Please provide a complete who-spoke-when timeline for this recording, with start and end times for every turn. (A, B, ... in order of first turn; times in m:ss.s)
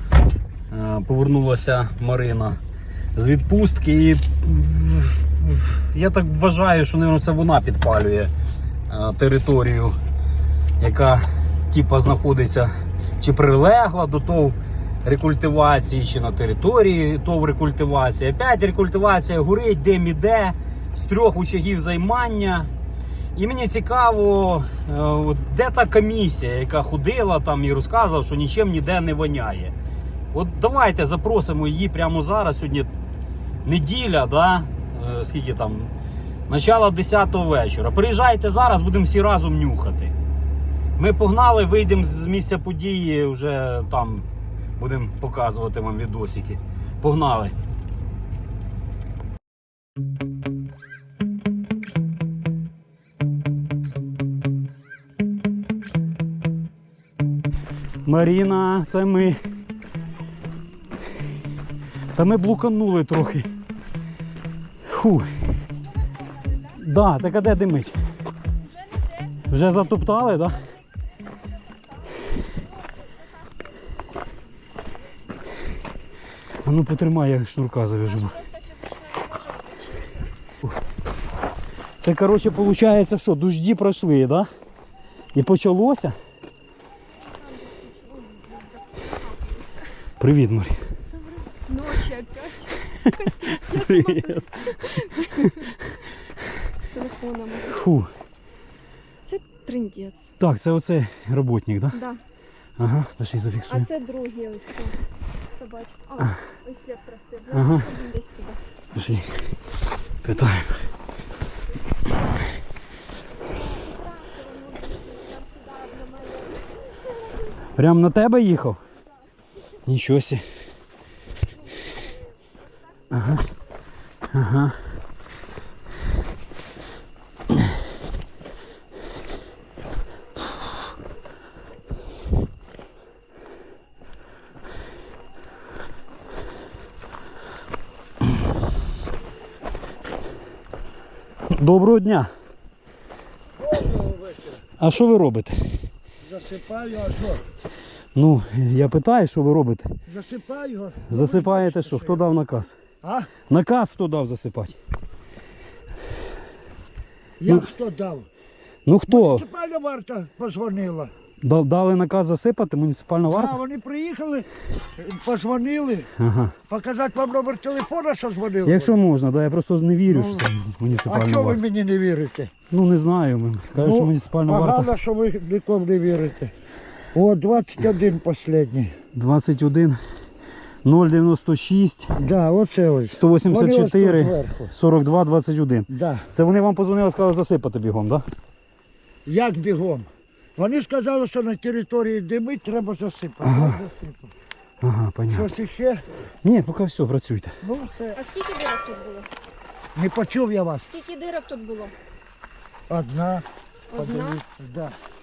0:00.7-0:02.6 A
0:03.2-0:08.3 A
0:08.9-0:10.0 A
0:10.8-0:22.7 A
0:23.4-0:29.8 A
0:30.3-0:32.9 A
0:33.6-0:35.9 A
0:36.5-0:40.1 A
0:41.0-0:44.3 A
0:44.8-0:47.6 A
0:58.0-0:59.4 A
1:02.1-1:03.5 A
1:04.9-1:05.3 A
1:06.3-1:06.7 B
1:06.7-1:08.0 A
1:08.6-1:10.2 B
1:09.5-1:10.7 A
1:11.5-1:13.9 B
1:16.6-1:18.4 A
1:18.0-1:20.3 B
1:22.0-1:24.5 A
1:25.4-1:26.2 A
1:27.2-1:30.0 B
1:30.2-1:30.8 A
1:31.2-1:35.8 B
1:33.0-1:36.0 A
1:36.8-1:37.9 B
1:37.7-1:38.1 A
1:39.2-1:40.3 B
1:40.4-1:42.0 A
1:41.9-1:42.2 B
1:42.8-1:43.9 A
1:43.7-1:48.6 B
1:47.5-1:47.9 A
1:48.9-1:49.3 A
1:50.2-1:50.8 A
1:53.4-1:57.6 B
1:57.7-1:58.8 A
1:59.8-2:00.4 A
2:02.0-2:02.6 B
2:03.1-2:03.4 A
2:04.3-2:04.8 A
2:21.5-2:22.3 A
2:23.6-2:24.6 C
2:24.8-2:25.8 A
2:26.2-2:27.4 C
2:28.2-2:29.9 A
2:30.1-2:32.2 C
2:31.1-2:32.8 A
2:33.0-2:33.3 C
2:33.5-2:34.8 A
2:37.4-2:38.3 C
2:38.9-2:39.4 A
2:39.1-2:41.1 C
2:41.4-2:43.6 A
2:43.3-2:46.1 C
2:46.2-2:46.6 A
2:46.7-2:49.0 C
2:48.6-2:51.6 A
2:50.1-2:50.5 C
2:51.1-2:52.5 C
2:52.7-2:54.9 A
2:53.8-2:56.5 C
2:57.1-2:59.0 C
2:59.1-3:00.0 A
3:00.8-3:02.2 A
3:02.2-3:04.7 C
3:03.1-3:08.2 A
3:05.9-3:06.3 C
3:09.3-3:14.3 C
3:13.4-3:13.9 A
3:14.8-3:15.5 A
3:15.3-3:16.0 C
3:16.4-3:17.6 A
3:17.6-3:18.2 C
3:18.2-3:19.3 B
3:20.0-3:20.9 C
3:20.9-3:22.0 B
3:22.9-3:23.5 C
3:23.9-3:24.4 B
3:24.0-3:25.0 C